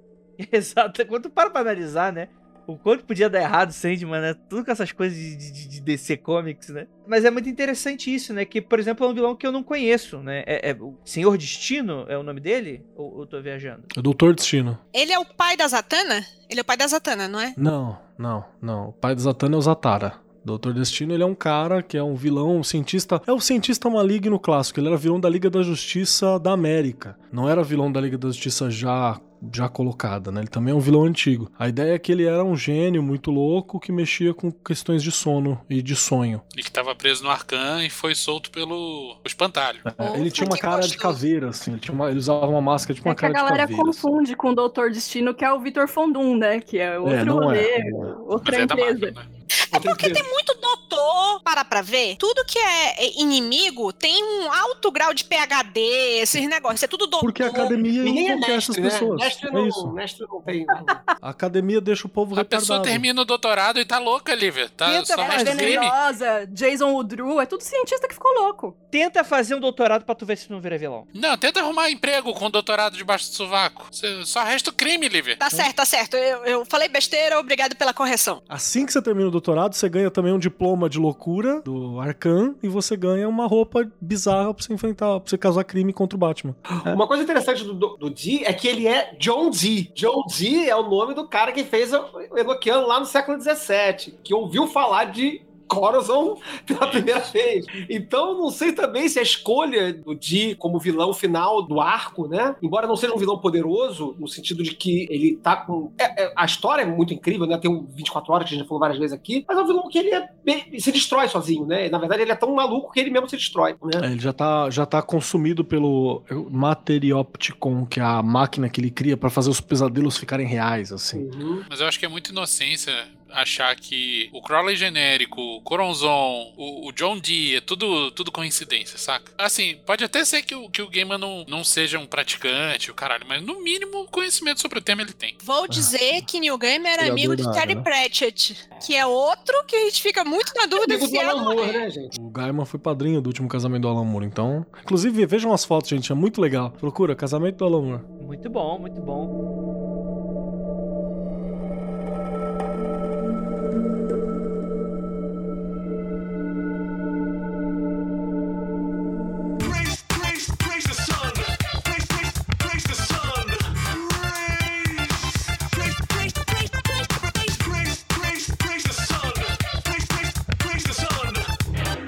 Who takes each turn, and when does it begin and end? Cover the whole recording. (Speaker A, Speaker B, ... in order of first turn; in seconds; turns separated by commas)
Speaker A: 0.4-13.9, Speaker B: 13.9-14.8, Speaker C: 14.9-17.6, Speaker B: 17.6-36.4, Speaker D: 36.5-39.9, Speaker B: 39.9-44.1, Speaker C: 40.0-41.2, Speaker E: 43.0-49.1, Speaker B: 47.0-48.2, Speaker D: 48.4-49.3, Speaker C: 49.6-57.8, Speaker F: 49.7-50.3, Speaker B: 57.2-59.9, Speaker F: 58.0-61.0, Speaker B: 61.2-63.0, Speaker D: 62.4-66.0, Speaker A: 64.9-65.8, Speaker E: 65.2-68.8, Speaker A: 68.9-71.1, Speaker D: 71.1-75.4, Speaker C: 75.4-78.4, Speaker B: 78.5-87.0, Speaker F: 86.9-114.0, Speaker B: 114.0-121.3, Speaker F: 121.2-121.7, Speaker D: 121.7-135.4, Speaker C: 135.4-141.9, Speaker B: 137.0-137.9, Speaker F: 140.8-142.1, Speaker B: 142.1-148.1, Speaker A: 148.2-149.3, Speaker B: 159.7-165.2, Speaker B: 165.8-166.5, Speaker B: 167.3-171.4